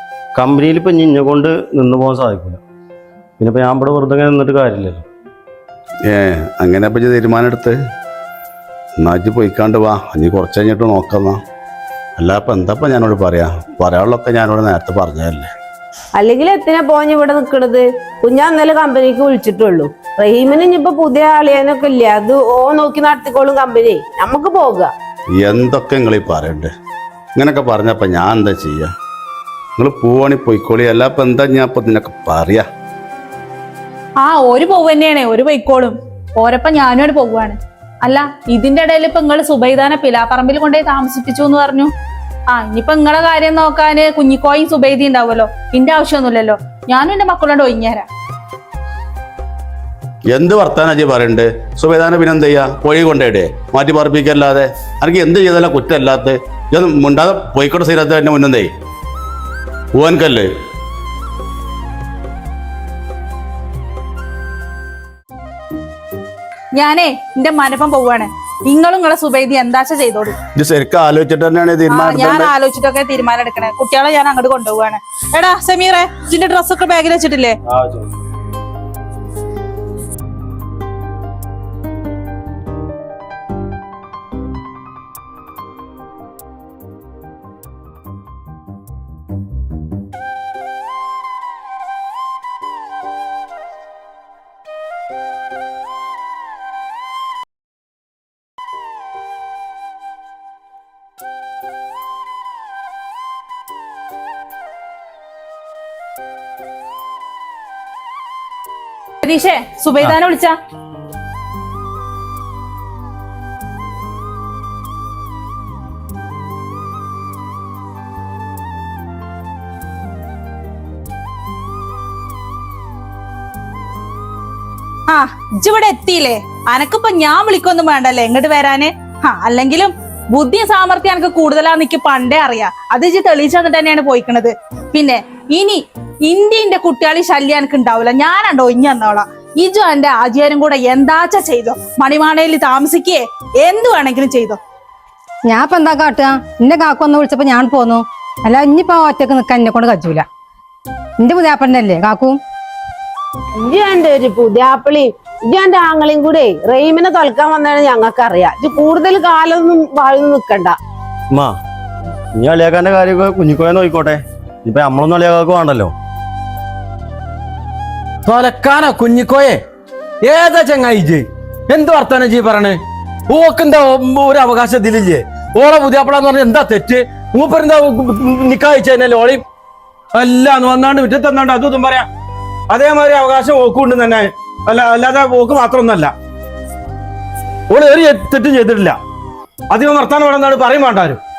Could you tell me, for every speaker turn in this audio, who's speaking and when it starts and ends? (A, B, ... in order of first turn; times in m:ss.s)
0:00.3-0:02.6 A
0:03.4-0:05.0 A
0:06.1-0:07.7 B
0:09.0-0:11.4 B
0:12.2-0:15.5 B
0:16.1-0:24.9 C
0:25.4-0:26.7 B
0:27.4-0:28.9 B
0:29.8-0:32.6 B
0:34.2-0:41.9 D
0:42.5-0:48.1 D
0:50.3-0:58.7 B
1:00.0-1:00.5 B
1:06.7-1:10.3 D
1:10.6-1:12.5 B
1:11.9-1:17.6 D
1:17.7-1:18.0 A
1:49.2-1:50.5 D
2:05.1-2:24.6 D
2:25.5-2:30.2 E
2:31.2-2:32.4 E
2:33.6-2:40.8 C
2:42.3-2:45.9 A
2:48.2-2:49.6 F
2:50.2-2:59.4 F
3:00.1-3:02.1 F
3:02.7-3:06.1 F
3:07.7-3:09.0 F
3:09.7-3:11.2 F